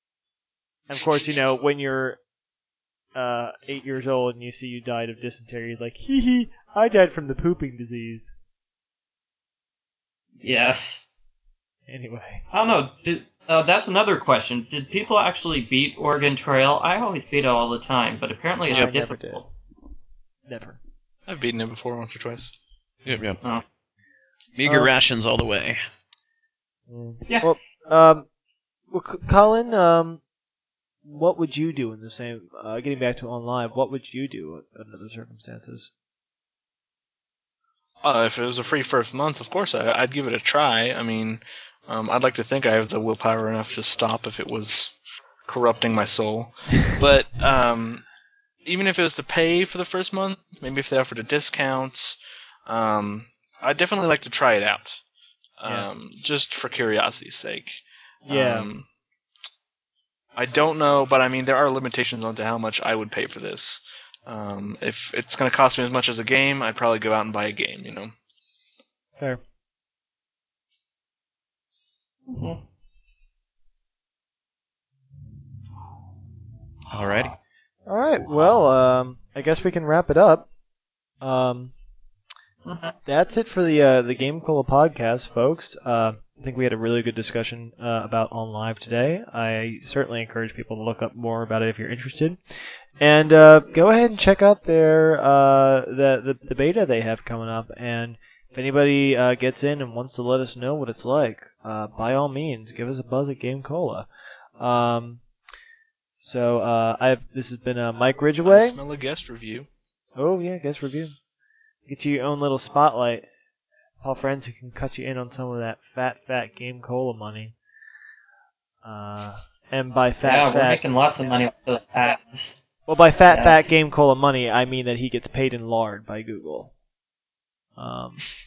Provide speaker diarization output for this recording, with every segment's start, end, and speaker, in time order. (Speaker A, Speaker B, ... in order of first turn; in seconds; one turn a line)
Speaker A: 0.9-2.2
Speaker A: 3.1-8.3
Speaker B: 10.4-11.0
Speaker A: 11.9-12.4
Speaker B: 12.5-19.4
Speaker A: 18.7-19.4
Speaker A: 20.5-20.8
Speaker C: 21.3-22.5
Speaker D: 23.1-23.4
Speaker D: 24.6-25.8
Speaker A: 24.6-24.9
Speaker A: 26.9-28.3
Speaker A: 28.9-30.2
Speaker A: 31.0-35.9
Speaker C: 38.0-48.0
Speaker C: 48.6-55.0
Speaker C: 55.6-58.9
Speaker A: 58.2-58.7
Speaker C: 60.4-68.1
Speaker B: 72.3-72.6
Speaker D: 76.9-77.3
Speaker A: 77.9-80.5
Speaker A: 81.2-81.7
Speaker B: 82.7-82.9
Speaker A: 83.1-104.1
Speaker A: 104.6-105.2
Speaker A: 106.2-108.8
Speaker C: 108.4-109.7
Speaker A: 110.2-111.2
Speaker A: 111.9-113.3
Speaker A: 114.0-117.5
Speaker A: 118.8-120.8
Speaker B: 120.2-122.6
Speaker A: 122.9-126.7
Speaker B: 123.3-123.6
Speaker A: 127.8-128.2